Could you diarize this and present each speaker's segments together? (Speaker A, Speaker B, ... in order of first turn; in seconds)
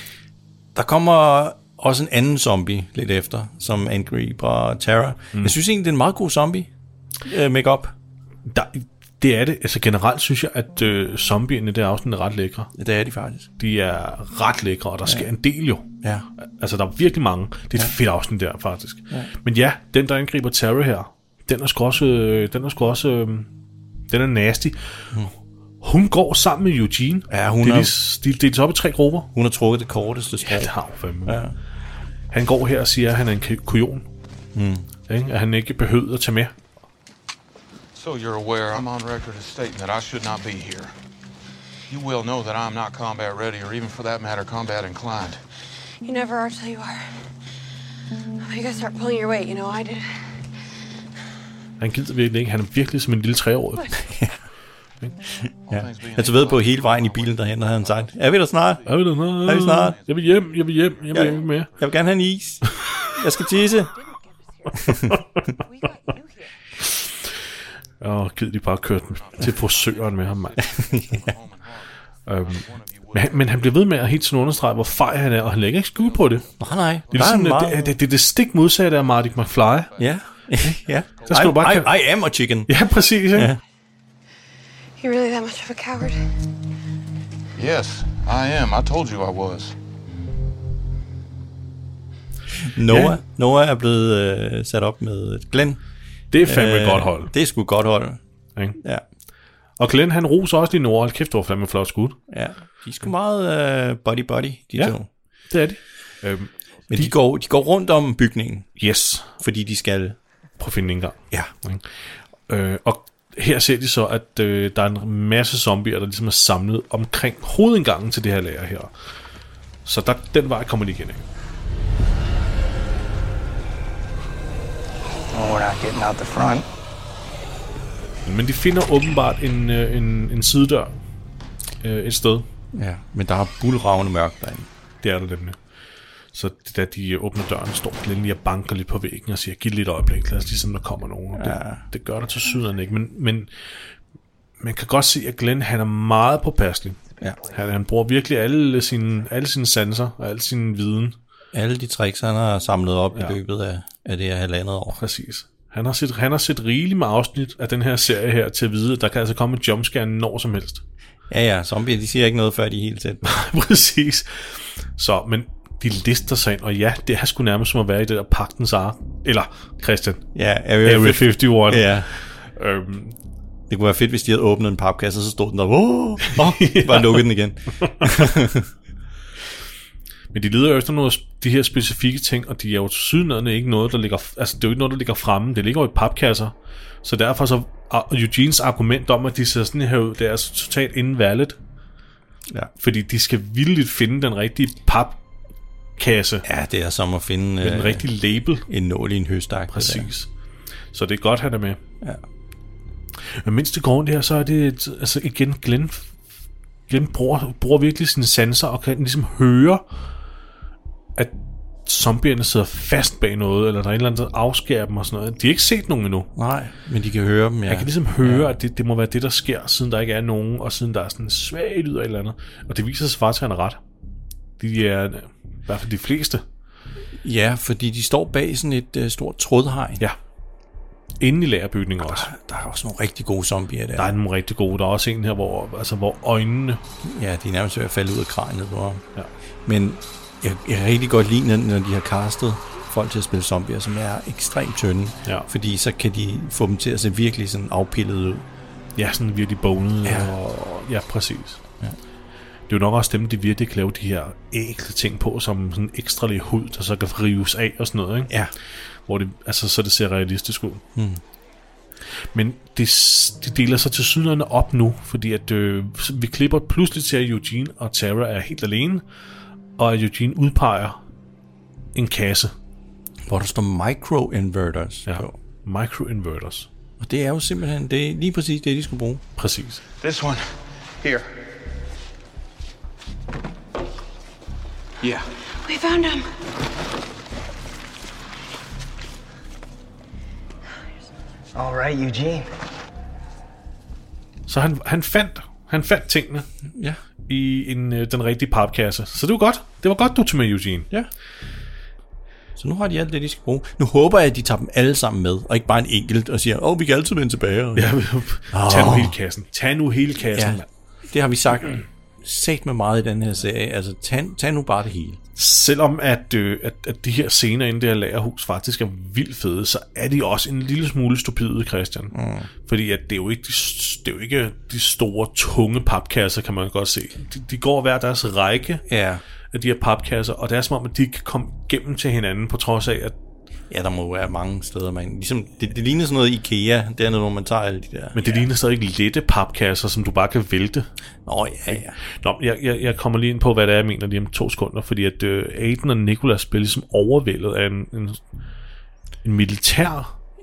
Speaker A: 0.7-6.7, 7.2-7.9, 12.8-13.5, 15.0-15.3, 27.3-27.9, 29.3-30.7, 31.2-31.5, 34.5-34.9, 54.0-54.4, 55.4-60.0, 61.1-63.9, 64.8-65.2, 70.9-71.3, 76.6-78.0, 80.0-82.7, 83.3-83.6, 92.6-95.8, 96.4-98.2, 98.8-99.0, 102.3-105.1, 106.9-108.7, 109.4-110.2, 132.7-134.7, 141.4-141.8, 151.5-155.0, 161.3-163.3, 170.3-172.1, 173.7-178.7, 196.4-198.1, 198.7-200.1, 216.3-218.5, 227.2-230.0, 232.0-234.1, 237.0-239.0, 239.7-248.4, 250.0-250.3, 260.9-261.2, 273.3-275.3, 277.0-279.2, 302.6-307.9, 308.5-309.1, 310.3-315.2, 322.1-322.5, 328.9-329.2, 333.7-338.3, 341.2-342.0
Speaker B: 8.4-12.7, 13.6-15.9, 16.4-23.5, 24.1-24.8, 25.8-29.3, 30.4-31.4, 32.3-34.1, 35.1-36.5, 51.8-53.9, 58.8-61.7, 68.0-70.6, 72.3-76.4, 77.1-79.9, 80.6-82.0, 82.7-83.5, 92.9-93.2, 96.3-97.3, 99.8-102.2, 105.5-107.1, 108.8-109.3, 110.6-111.8, 112.5-118.9, 119.8-121.2, 128.2-131.0, 131.8-132.4, 135.0-135.6, 136.3-143.5, 144.6-151.2, 155.0-160.8, 163.2-170.2, 170.8-173.2, 176.3-177.3, 177.8-178.2, 180.3-191.6, 192.8-195.2, 196.0-196.4, 197.6-198.7, 199.7-200.3, 200.9-201.8, 203.4-206.1, 206.9-209.8, 211.2-216.3, 217.7-223.8, 224.6-226.4, 231.2-232.3, 233.9-236.8, 248.9-251.6, 252.7-258.3, 259.1-260.8, 262.3-269.0, 269.8-271.0, 271.9-272.5, 275.1-276.7, 279.4-279.8, 294.5-296.5, 297.3-300.9, 307.8-310.7, 315.4-322.1, 322.6-328.8, 329.5-333.1, 338.1-340.9, 341.7-348.2, 349.2-350.1
Speaker C: 37.9-40.9, 41.9-45.4, 55.7-61.8, 69.0-77.5, 79.0-80.3, 80.8-81.7, 87.5-89.7, 280.0-280.5, 281.0-281.4, 285.0-285.3
Speaker D: 46.0-47.0, 48.4-50.1, 53.8-54.0, 85.0-86.3, 285.6-286.3
Speaker E: 125.3-126.6, 291.5-292.5